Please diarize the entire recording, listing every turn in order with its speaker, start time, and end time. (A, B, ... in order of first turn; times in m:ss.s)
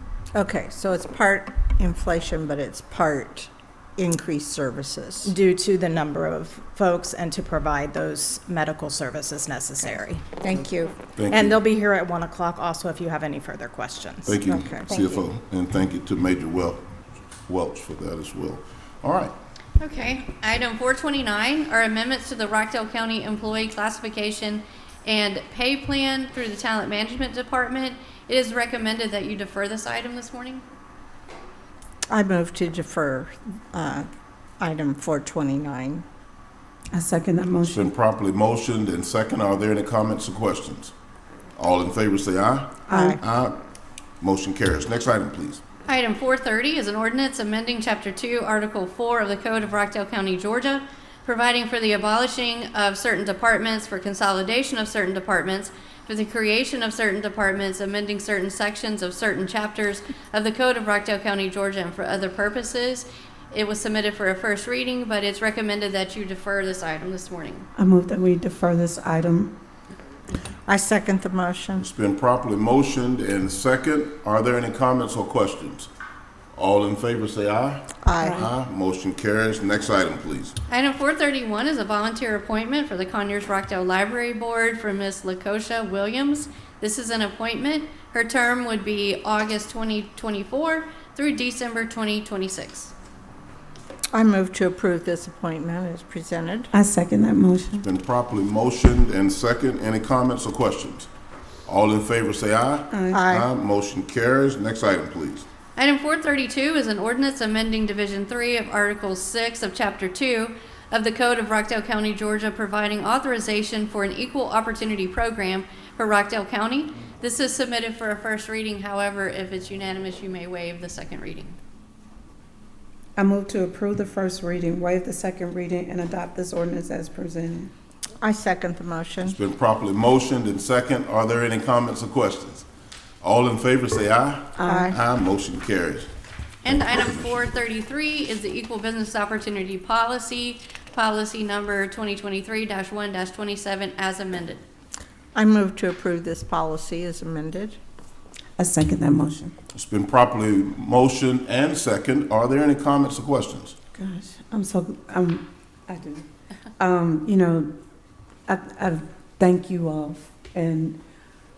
0:00.3-0:05.4 A
0:05.2-0:10.2 B
0:10.4-0:11.0 A
0:11.2-0:11.6 C
0:11.3-0:14.4 B
0:14.2-0:16.8 C
0:14.5-0:15.2 A
0:17.4-0:19.3 C
0:19.8-0:30.6 D
0:32.1-0:34.1 A
0:34.6-0:36.0 A
0:36.9-0:37.9 E
0:37.7-0:40.9 C
0:41.6-0:43.6 C
0:42.9-0:43.2 E
0:42.9-0:43.2 A
0:44.2-0:45.6 C
0:45.9-1:07.7 D
1:07.8-1:09.6 E
1:10.7-1:11.9 A
1:11.8-1:15.9 C
1:16.5-1:20.6 C
1:18.0-1:18.4 A
1:18.2-1:18.5 E
1:20.7-1:32.9 D
1:34.1-1:36.7 A
1:36.7-1:37.9 E
1:37.8-1:41.1 C
1:41.7-1:45.5 C
1:42.9-1:43.2 E
1:43.1-1:43.5 A
1:45.8-2:01.6 D
2:03.2-2:07.7 E
2:08.2-2:09.4 A
2:09.2-2:12.7 C
2:13.2-2:16.1 C
2:14.6-2:15.0 E
2:14.7-2:15.0 A
2:16.6-2:24.6 D
2:16.7-2:17.4 C
2:25.4-2:27.8 A
2:28.6-2:29.5 E
2:29.8-2:33.8 C
2:34.0-2:36.3 E
2:36.8-2:37.7 E
2:38.5-2:41.0 E